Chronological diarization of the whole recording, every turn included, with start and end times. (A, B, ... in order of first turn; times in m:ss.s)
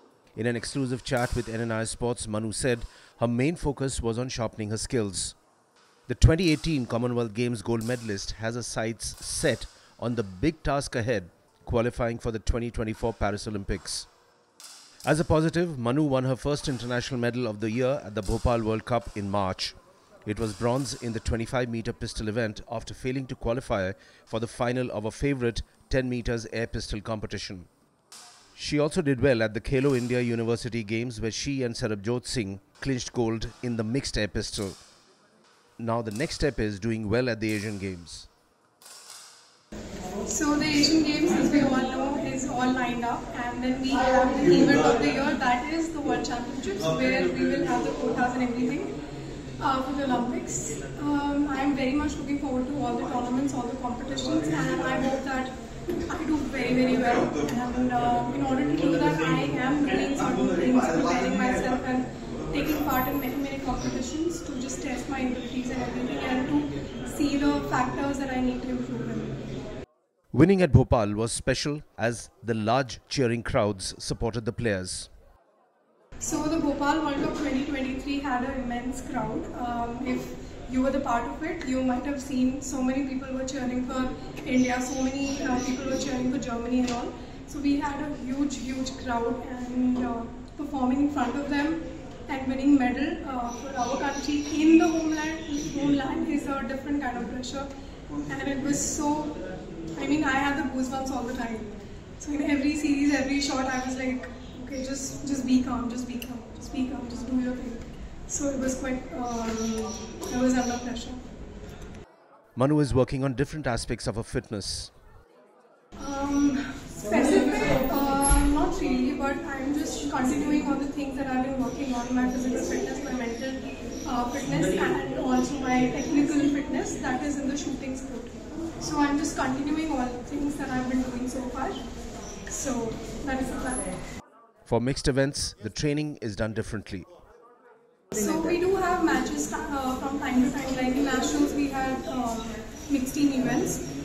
0:00.4-0:05.4 A
0:06.1-0:14.1 A
0:15.0-0:27.7 A
0:28.6-0:34.8 A
0:35.8-0:38.3 A
0:40.2-0:49.0 B
0:49.6-1:09.4 B
1:10.3-1:15.1 A
1:16.2-1:37.7 B
1:38.3-1:39.4 B
1:40.0-1:51.2 B
1:52.6-1:54.9 A
1:56.0-2:11.8 B
2:12.5-2:13.9 B
2:14.7-2:17.1 A
2:18.1-2:23.8 B